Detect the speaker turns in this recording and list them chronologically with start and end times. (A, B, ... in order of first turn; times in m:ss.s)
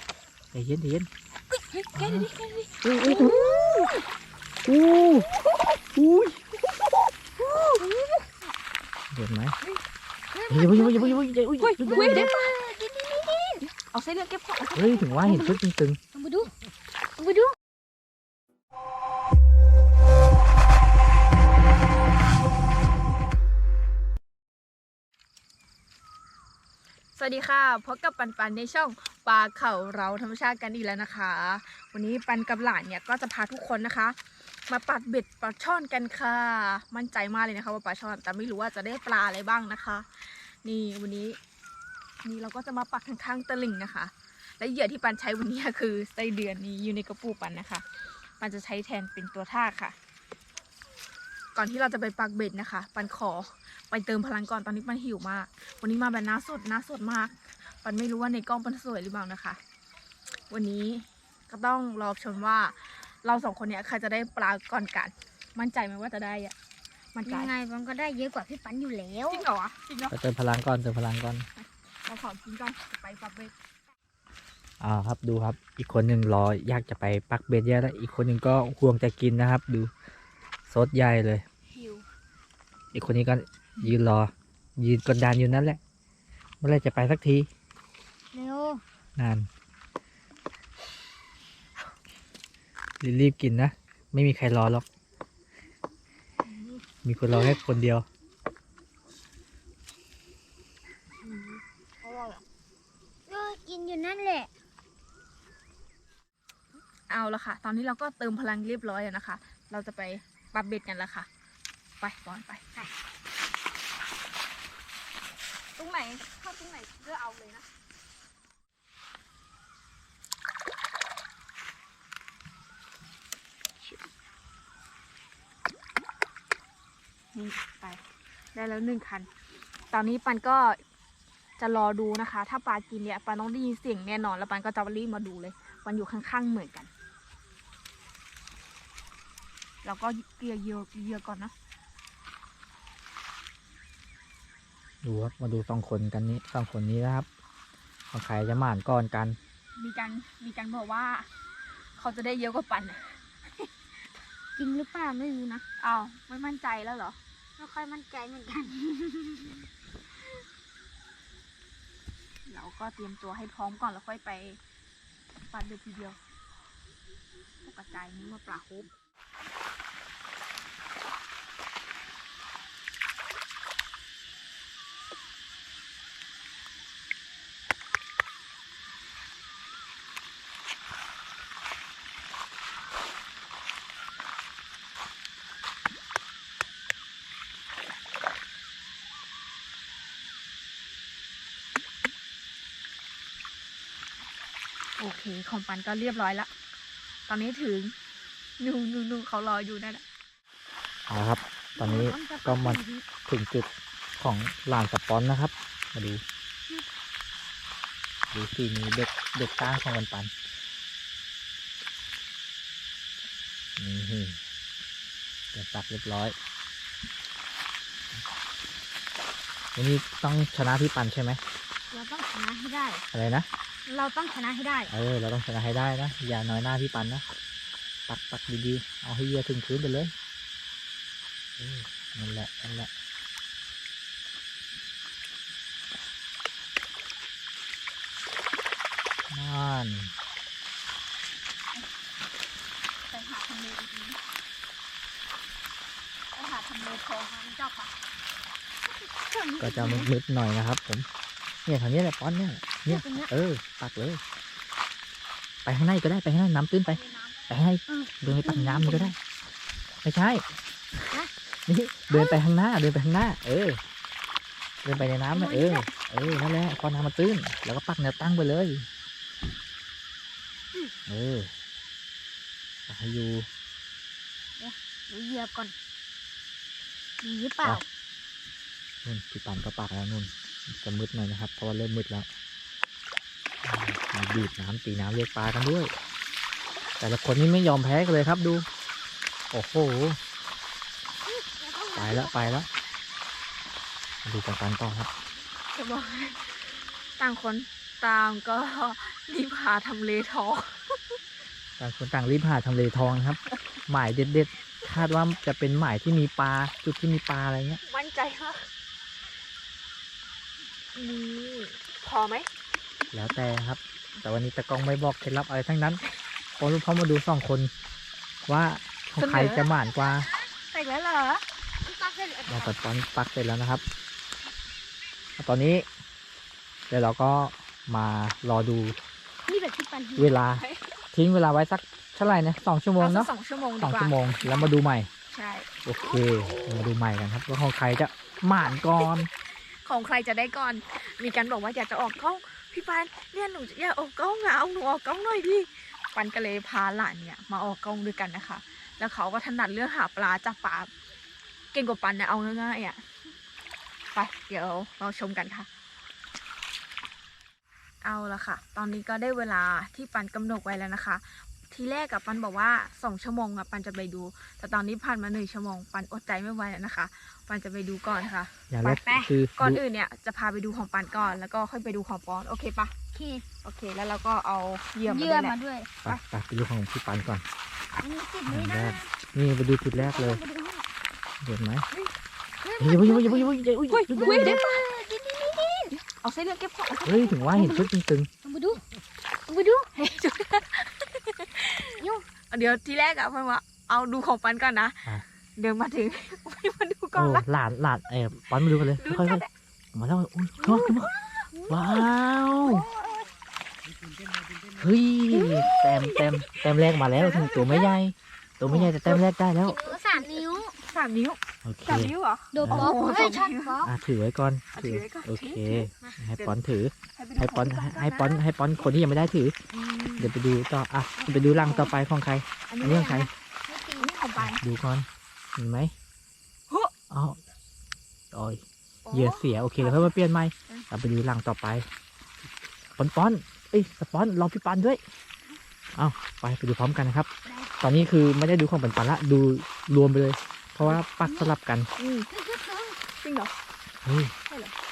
0:00.5-0:01.1 A
0:01.7-0:02.8 B
0:02.0-0:02.3 A
0:02.8-0:03.9 A
0:03.0-0:04.0 C
0:03.6-0:03.9 B
0:04.6-0:05.3 A
0:06.0-0:06.4 B
0:07.4-0:07.8 B
0:07.8-0:08.1 C
0:09.1-0:09.6 A
0:10.3-0:11.2 C
0:10.5-0:12.3 A
0:11.6-0:12.6 B
0:11.8-0:13.7 C
0:13.7-0:15.3 B
0:14.7-0:16.0 A
0:15.2-0:15.6 C
0:16.1-0:16.5 C
0:17.2-0:17.5 C
0:27.2-0:34.2 B
0:34.7-0:41.4 B
0:42.2-0:47.8 B
0:48.4-0:50.0 B
0:51.6-0:59.6 B
1:00.5-1:06.5 B
1:07.1-1:07.5 B
1:07.2-1:09.4 C
1:09.3-1:10.2 B
1:10.1-1:11.5 A
1:11.6-1:13.5 B
1:14.8-1:19.9 A
1:20.7-1:21.4 A
1:21.7-1:22.0 B
1:22.9-1:25.8 A
1:26.6-1:27.5 A
1:28.3-1:28.8 C
1:29.2-1:29.5 A
1:33.0-1:34.8 A
1:36.5-1:36.8 B
1:37.0-1:38.0 A
1:37.3-1:37.6 C
1:42.0-1:42.4 B
1:43.3-1:44.5 C
1:47.1-1:51.3 B
1:52.0-1:52.6 B
1:55.8-1:57.7 B
2:07.3-2:08.0 B
2:08.5-2:09.3 B
2:09.9-2:10.8 B
2:11.6-2:16.9 B
2:19.8-2:21.5 B
2:25.0-2:27.3 A
2:28.1-2:29.4 A
2:29.8-2:31.3 B
2:32.0-2:33.7 B
2:34.6-2:35.6 C
2:35.8-2:37.2 B
2:37.6-2:39.6 C
2:42.4-2:44.6 B
2:45.5-2:46.2 B
2:47.6-2:48.9 B
3:15.0-3:16.5 B
3:17.3-3:18.0 B
3:18.6-3:20.0 B
3:21.1-3:23.7 A
3:21.8-3:23.1 C
3:24.2-3:26.2 A
3:28.3-3:30.3 A
3:33.8-3:34.4 A
3:35.5-3:36.3 A
3:39.8-3:41.4 A
3:41.9-3:43.0 C
3:43.1-3:43.5 A
3:43.9-3:44.9 C
3:44.9-3:47.2 A
3:48.1-3:50.1 A
3:51.6-3:52.9 A
3:59.3-4:00.1 A
4:03.1-4:04.2 B
4:06.3-4:07.9 B
4:08.9-4:10.1 C
4:09.6-4:11.1 A
4:11.7-4:14.2 A
4:12.9-4:13.3 C
4:15.6-4:19.2 A
4:16.9-4:17.5 B
4:17.9-4:19.2 C
4:20.0-4:20.4 A
4:21.7-4:23.8 A
4:22.1-4:22.4 C
4:24.8-4:28.9 A
4:25.3-4:25.9 C
4:31.1-4:31.5 A
4:32.9-4:33.5 A
4:34.6-4:35.7 C
4:37.2-4:37.8 C
4:39.0-4:42.2 A
4:43.6-4:45.9 A
4:47.0-4:48.6 A
4:49.5-4:50.2 A
4:51.2-4:52.6 C
4:51.9-4:52.7 A
4:54.2-4:55.1 A
4:55.7-5:01.2 B
5:01.8-5:07.8 A
5:07.8-5:08.7 B
5:10.9-5:12.5 B
5:13.1-5:16.0 A
5:16.6-5:17.7 A
5:18.4-5:20.3 A
5:19.2-5:19.7 B
5:20.0-5:21.1 C
5:20.8-5:21.4 B
5:21.8-5:22.8 C
5:22.5-5:23.8 A
5:25.4-5:25.9 A
5:26.9-5:29.0 A
5:29.4-5:30.3 C
5:30.2-5:35.1 A
5:30.6-5:31.0 B
5:33.0-5:34.8 B
5:35.3-5:35.7 B
5:35.8-5:39.3 A
5:36.0-5:36.9 C
5:38.8-5:39.1 B
5:39.8-5:50.9 B
5:51.7-5:53.0 B
5:54.1-5:55.7 B
5:58.0-6:12.9 B
6:08.7-6:09.8 A
6:09.0-6:09.3 C
6:13.1-6:13.5 C
6:13.6-6:16.2 B
6:15.1-6:15.9 C
6:16.0-6:17.4 A
6:18.0-6:19.1 C
6:18.5-6:20.4 A
6:20.0-6:20.8 C
6:21.4-6:21.9 A
6:22.6-6:23.6 C
6:22.8-6:24.6 A
6:23.9-6:25.2 B
6:24.1-6:26.0 C
6:26.0-6:27.9 B
6:27.0-6:28.3 A
6:27.6-6:27.9 C
6:28.4-6:28.8 C
6:29.5-6:29.9 C
6:29.9-6:37.4 B
6:32.0-6:32.3 C
6:37.1-6:39.4 A
6:38.6-6:39.5 B
6:39.9-6:41.1 A
6:40.6-6:42.0 C
6:41.7-6:42.9 A
6:42.7-6:43.2 C
6:44.8-6:49.8 A
6:45.3-6:47.9 B
6:48.6-6:49.3 B
6:49.6-6:50.8 C
6:49.8-6:53.8 B
6:51.6-6:52.9 A
6:52.5-6:53.9 C
6:53.8-6:59.6 A
6:54.7-6:56.6 B
6:57.1-6:58.9 B
6:59.7-7:00.3 C
7:00.2-7:03.3 A
7:01.2-7:02.0 C
7:02.7-7:03.3 B
7:03.6-7:04.1 C
7:04.0-7:04.6 B
7:04.4-7:05.9 A
7:07.1-7:07.4 A
7:08.3-7:11.9 A
7:09.1-7:10.9 B
7:13.0-7:15.0 A
7:16.0-7:17.3 A
7:17.4-7:18.0 C
7:17.8-7:21.9 A
7:21.2-7:21.5 C
7:22.0-7:22.3 B
7:22.3-7:23.0 C
7:23.2-7:23.5 B
7:24.0-7:24.3 A
7:24.4-7:24.7 B